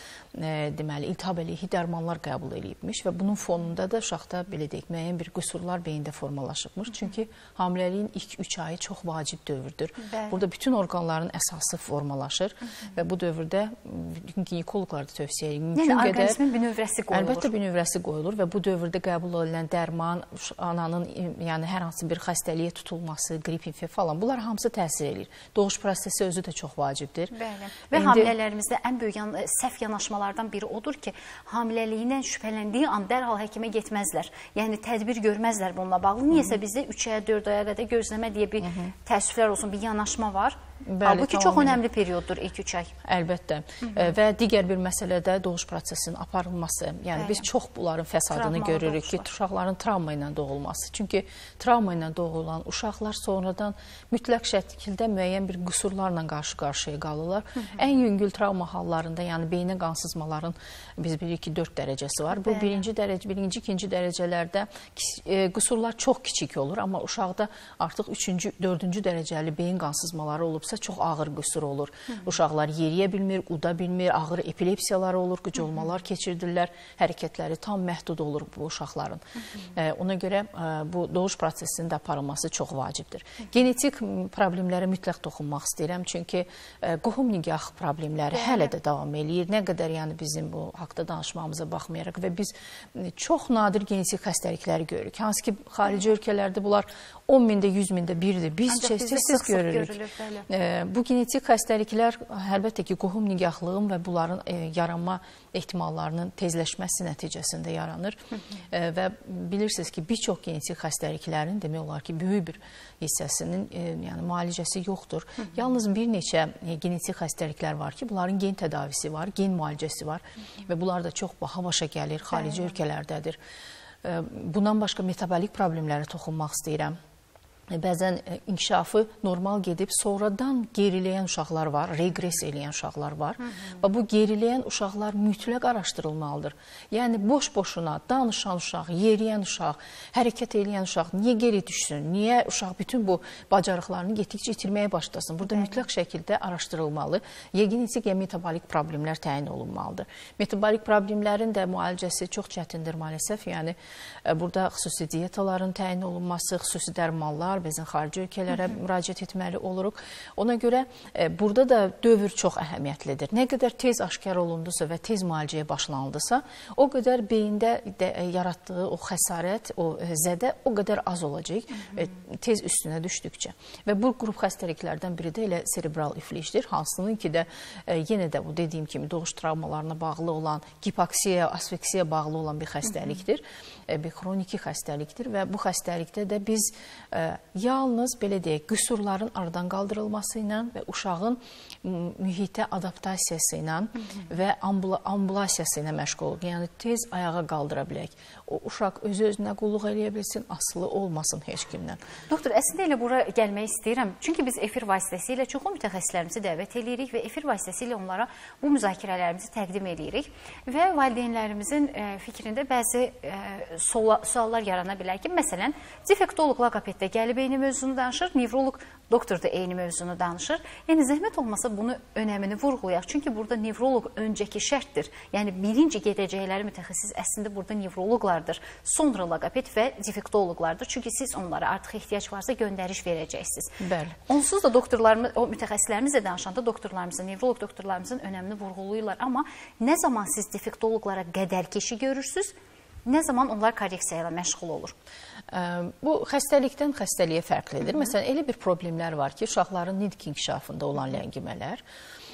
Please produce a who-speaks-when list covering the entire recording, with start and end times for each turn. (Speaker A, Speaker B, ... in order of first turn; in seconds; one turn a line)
Speaker A: 0.3-16.4
Speaker B: 10.0-10.4
Speaker B: 15.8-17.5
Speaker A: 17.1-27.3
Speaker B: 27.3-42.9
Speaker A: 27.9-28.3
Speaker A: 38.6-38.9
Speaker A: 40.8-41.8
Speaker A: 43.0-79.2
Speaker B: 43.9-44.1
Speaker B: 47.1-47.5
Speaker B: 48.3-49.3
Speaker B: 62.4-62.8
Speaker A: 79.8-100.0
Speaker B: 98.7-100.5
Speaker A: 100.5-108.2
Speaker A: 108.7-123.4
Speaker A: 124.0-127.0
Speaker A: 127.7-202.0
Speaker B: 202.3-233.8
Speaker A: 233.8-234.2
Speaker B: 234.3-242.6
Speaker B: 243.1-244.9
Speaker A: 245.5-251.8